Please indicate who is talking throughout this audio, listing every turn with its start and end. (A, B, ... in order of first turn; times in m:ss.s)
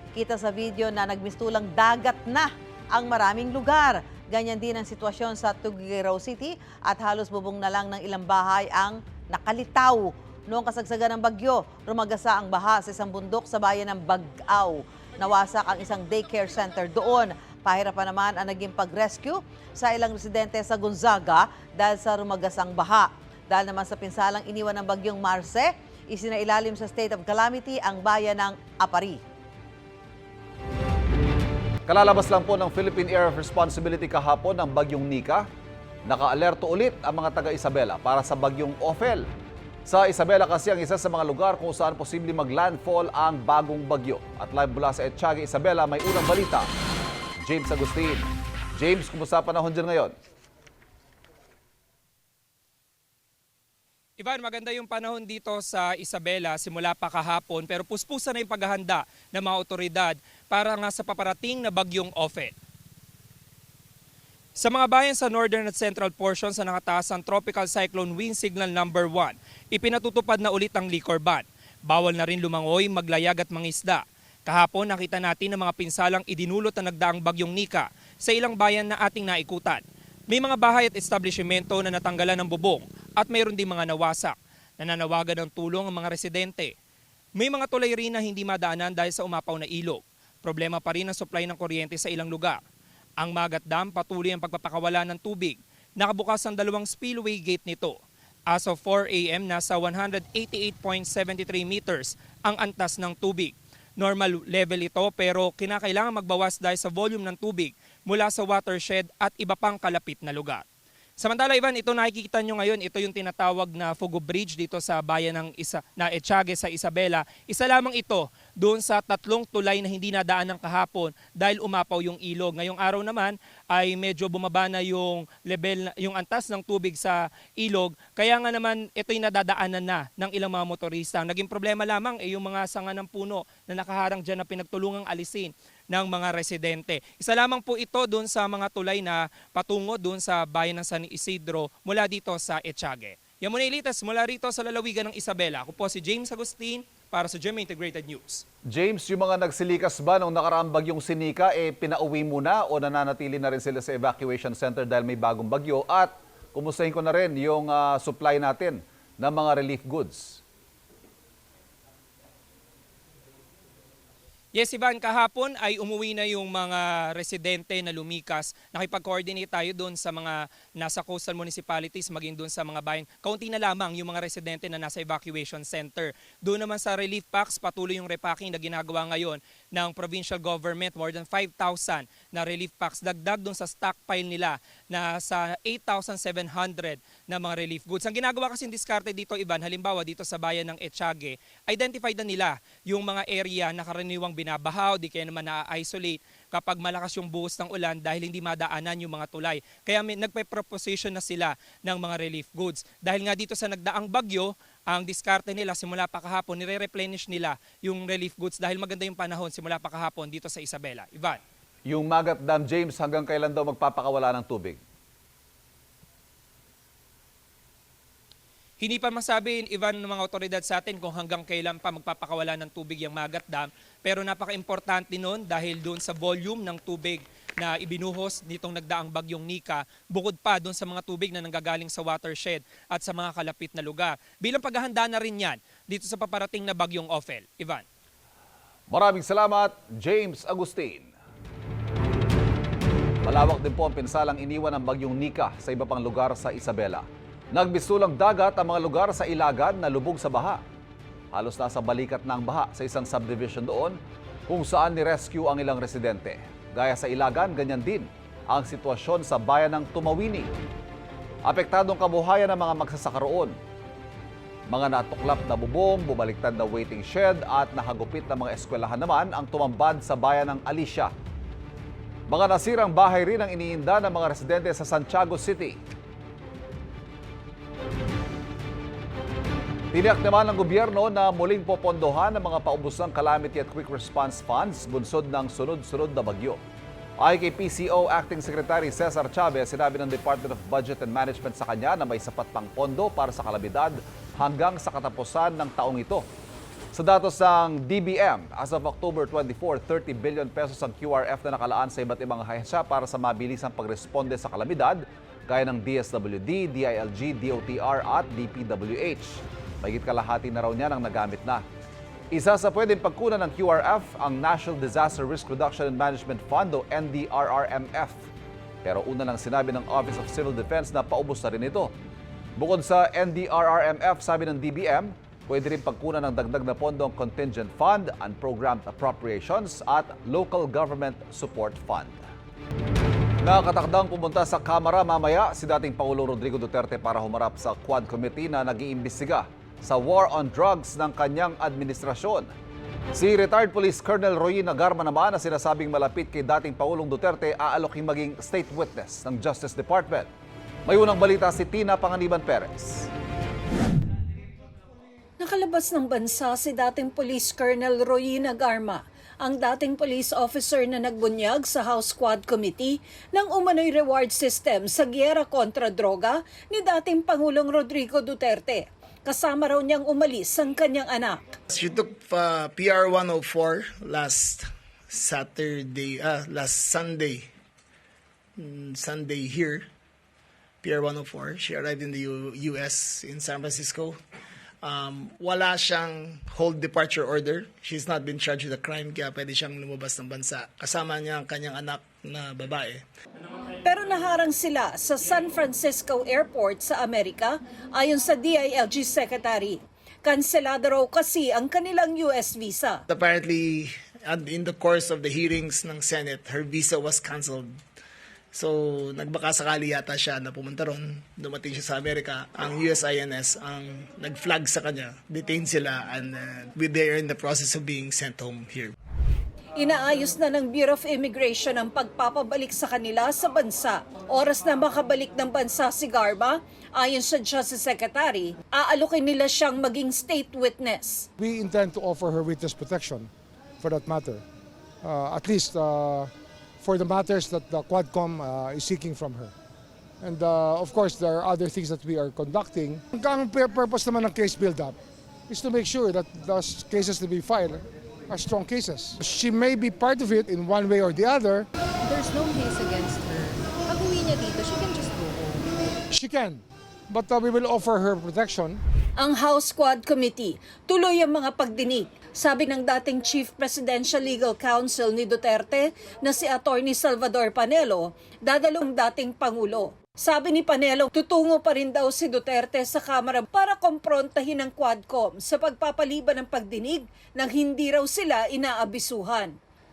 0:00.2-0:29.2 A
0:31.9-0:35.5 B
0:36.1-0:39.3 B
0:39.9-0:46.7 B
0:47.4-0:50.1 B
0:54.2-1:02.5 C
1:04.6-1:26.7 C
1:27.4-1:32.6 C
1:33.2-1:38.0 C
1:38.5-1:50.6 C
1:51.2-2:28.4 C
2:28.7-2:40.4 B
2:44.5-3:31.4 C
3:31.9-3:34.8 B
3:38.8-3:57.8 C
3:58.9-4:01.1 B
4:03.2-4:10.6 B
4:11.3-4:20.5 B
4:21.5-4:23.6 B
4:24.7-4:31.1 B
4:32.3-4:35.8 B
4:39.9-4:46.6 B
4:47.2-4:56.3 B
4:56.9-5:11.6 B
5:12.3-5:18.3 B
5:18.8-5:21.9 B
5:22.6-5:32.2 B
5:33.4-5:42.5 B
5:43.1-5:50.3 B
5:50.9-5:53.1 B
5:55.4-6:11.4 D
6:11.7-6:17.5 E
6:18.6-6:19.9 E
6:20.8-6:24.2 E
6:24.8-6:33.0 E
6:33.8-6:43.0 D
6:43.1-6:47.7 E
6:48.5-6:58.9 E
6:59.8-7:11.3 D
7:11.4-7:13.3 F
7:13.8-7:14.4 F
7:15.0-7:16.3 F
7:16.8-7:19.5 F
7:20.2-7:25.0 F
7:25.5-7:31.7 F
7:32.1-7:35.6 G
7:36.1-7:38.8 F
7:39.2-7:59.6 D